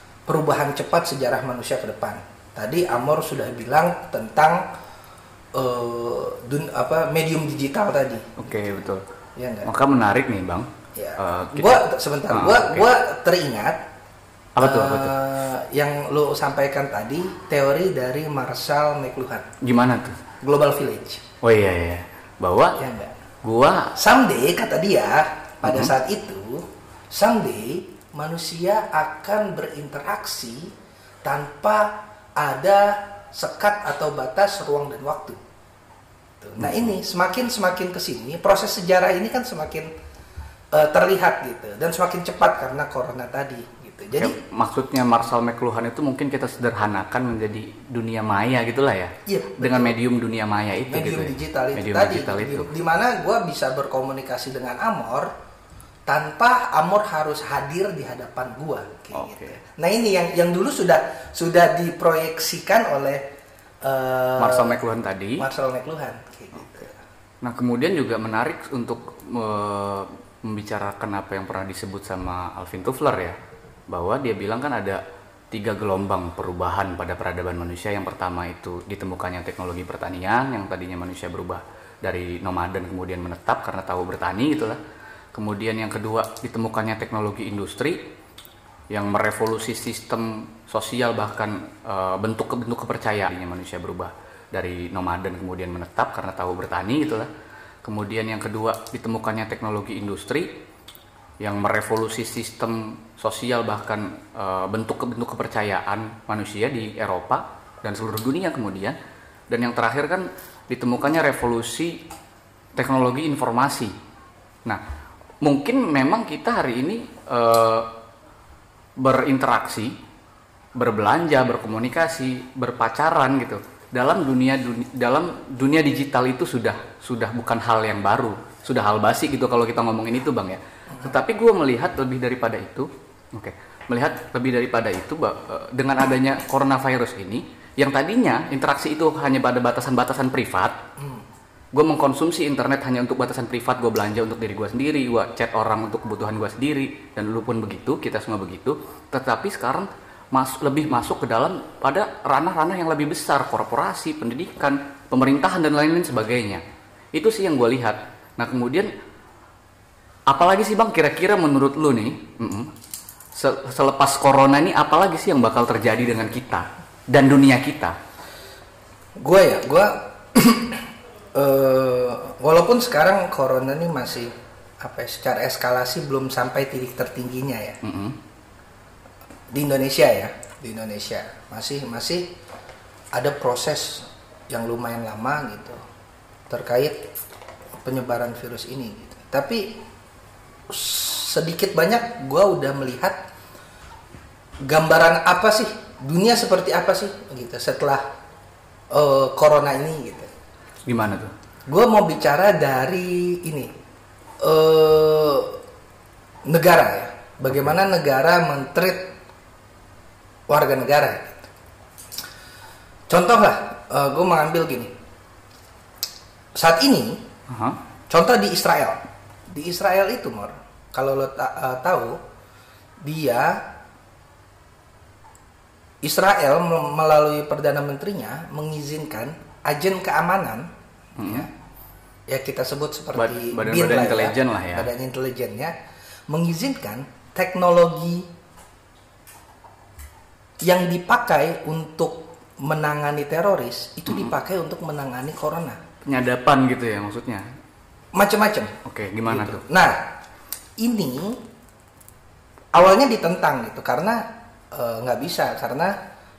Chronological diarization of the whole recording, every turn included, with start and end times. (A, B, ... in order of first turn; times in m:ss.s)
0:00.3-0:04.6 A
0:05.6-0:08.8 A
0:08.4-0:09.0 B
0:09.4-0:09.7 A
0:09.6-0:12.9 B
0:11.0-0:13.8 A
0:14.6-0:15.2 B
0:14.6-0:19.4 A
0:19.6-0:20.2 B
0:20.4-0:21.2 A
0:21.4-0:22.8 B
0:22.8-0:23.1 A
0:23.4-0:24.0 B
0:24.0-0:30.7 A
0:25.6-0:25.9 B
0:31.2-0:35.4 A
0:36.4-0:39.9 A
0:36.6-0:36.9 B
0:40.7-0:44.4 A
0:44.2-0:52.7 B
0:49.3-0:50.0 A
0:50.9-0:55.3 A
0:56.1-1:03.2 A
0:59.1-0:59.6 B
1:03.8-1:04.8 A
1:04.4-1:05.4 B
1:05.4-1:07.0 A
1:07.4-1:13.4 B
1:13.9-1:15.0 B
1:15.5-1:24.8 B
1:25.3-1:28.0 B
1:28.9-1:37.3 B
1:37.8-1:40.5 B
1:41.4-1:49.0 B
1:49.5-1:52.0 B
1:52.8-1:53.9 B
1:55.4-1:57.9 B
1:59.0-1:59.9 B
2:00.8-2:20.8 B
2:21.0-2:21.2 A
2:21.7-2:36.6 B
2:37.1-2:38.9 B
2:40.3-2:42.7 B
2:43.4-2:47.9 B
2:49.2-2:50.8 A
2:51.4-2:57.8 A
2:57.8-2:58.2 B
2:59.5-3:02.3 A
3:03.1-3:05.8 A
3:06.5-3:07.0 A
3:07.8-3:09.8 A
3:10.7-3:13.2 A
3:14.7-3:18.0 A
3:18.9-3:20.3 A
3:20.9-3:21.3 B
3:21.7-3:23.7 A
3:24.4-3:25.6 A
3:26.5-3:29.1 A
3:30.5-3:31.4 A
3:33.1-3:34.9 A
3:36.6-3:37.2 A
3:37.5-3:37.8 B
3:38.1-3:39.0 A
3:39.5-3:42.2 A
3:43.0-3:43.6 A
3:46.0-3:50.7 A
3:51.2-3:51.5 B
3:51.2-3:51.5 A
3:52.3-3:55.7 A
3:53.1-3:54.9 B
3:56.3-3:58.2 A
4:00.6-4:05.8 A
4:06.0-4:07.4 B
4:08.1-4:08.8 A
4:08.8-4:09.6 B
4:09.3-4:10.0 A
4:10.8-4:11.4 A
4:12.7-4:16.0 A